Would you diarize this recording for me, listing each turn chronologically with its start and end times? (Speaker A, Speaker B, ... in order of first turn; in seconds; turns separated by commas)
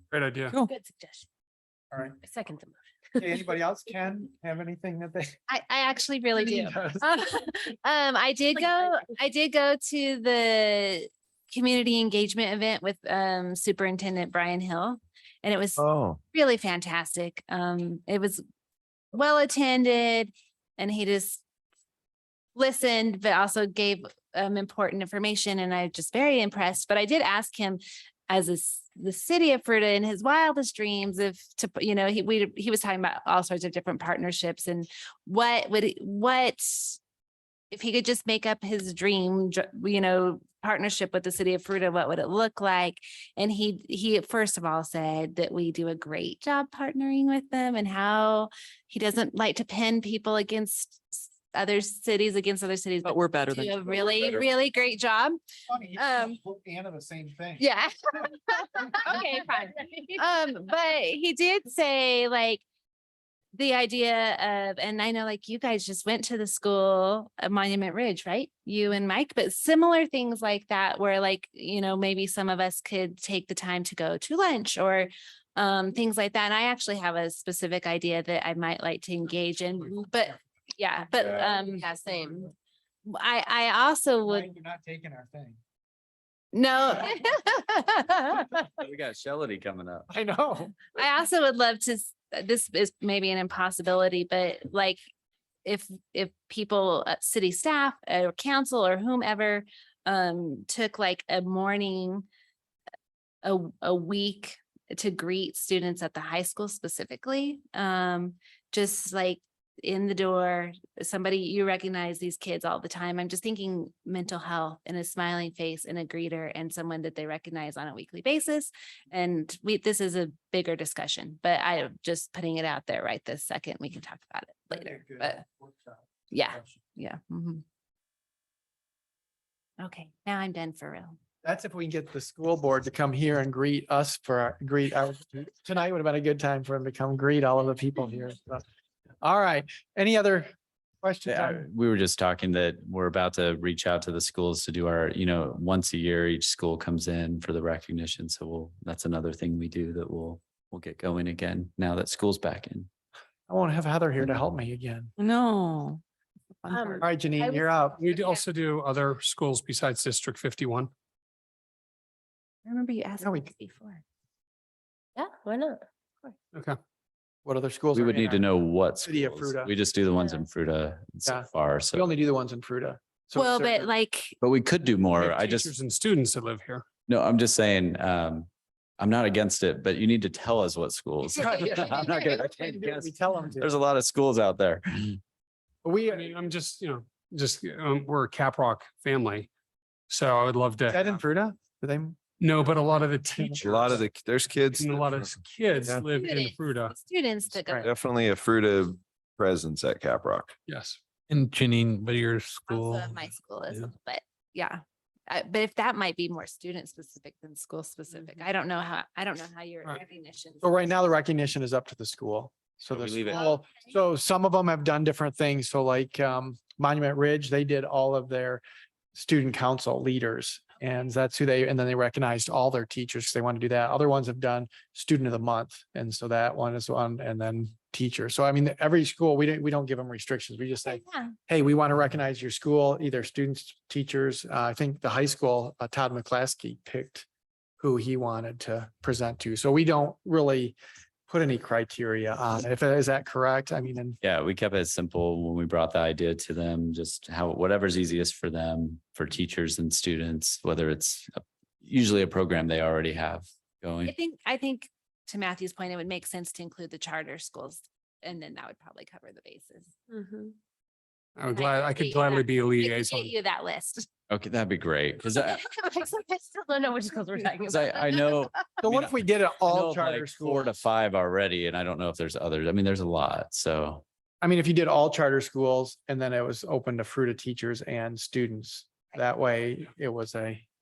Speaker A: 0.1-0.6, Speaker B: 0.6-1.2, Speaker C: 1.9-2.2, Speaker B: 2.2-3.3, Speaker C: 3.2-5.3, Speaker D: 5.5-18.4, Speaker C: 6.3-7.0, Speaker B: 8.6-8.9, Speaker E: 15.8-16.2, Speaker D: 19.1-21.4, Speaker D: 22.6-37.0, Speaker D: 37.7-55.4, Speaker F: 53.0-54.4, Speaker C: 55.7-57.6, Speaker D: 56.0-56.4, Speaker D: 57.6-62.6, Speaker D: 63.5-81.9, Speaker B: 81.6-82.3, Speaker D: 83.0-84.5, Speaker C: 84.2-85.6, Speaker D: 86.5-88.6, Speaker G: 88.8-90.1, Speaker C: 90.1-90.9, Speaker D: 90.9-95.0, Speaker D: 95.6-102.2, Speaker D: 103.4-125.4, Speaker C: 124.7-126.0, Speaker D: 126.3-127.6, Speaker D: 129.8-131.1, Speaker C: 131.4-138.6, Speaker C: 139.2-141.7, Speaker G: 141.2-152.9, Speaker C: 153.5-155.1, Speaker F: 155.2-156.0, Speaker C: 156.7-158.0, Speaker B: 156.7-157.8, Speaker A: 158.0-160.9, Speaker C: 163.2-163.5, Speaker B: 165.2-166.3, Speaker C: 167.4-168.5, Speaker G: 167.9-172.1, Speaker C: 169.0-169.7, Speaker B: 170.2-170.5, Speaker C: 171.2-173.9, Speaker D: 173.3-174.3, Speaker G: 174.4-175.7, Speaker A: 175.2-176.8, Speaker G: 177.1-185.2, Speaker C: 181.3-183.8, Speaker C: 185.8-186.3, Speaker A: 186.1-189.5, Speaker A: 190.1-191.0, Speaker C: 190.9-192.2, Speaker A: 192.4-194.0, Speaker C: 193.3-193.9, Speaker E: 193.6-195.3, Speaker A: 194.6-196.9, Speaker D: 196.1-197.9, Speaker E: 197.8-200.5, Speaker A: 200.7-201.0, Speaker H: 201.3-203.9, Speaker D: 202.7-210.9, Speaker C: 210.6-218.6, Speaker G: 212.9-213.5, Speaker C: 219.1-237.2, Speaker D: 230.8-231.3, Speaker C: 237.8-240.8, Speaker C: 241.3-244.2, Speaker G: 244.2-254.1, Speaker D: 254.0-259.9, Speaker B: 260.1-260.5, Speaker A: 261.4-263.3, Speaker D: 261.5-264.1, Speaker G: 264.3-265.6, Speaker B: 265.8-268.7, Speaker G: 267.6-274.0, Speaker C: 268.8-270.9, Speaker C: 274.4-280.6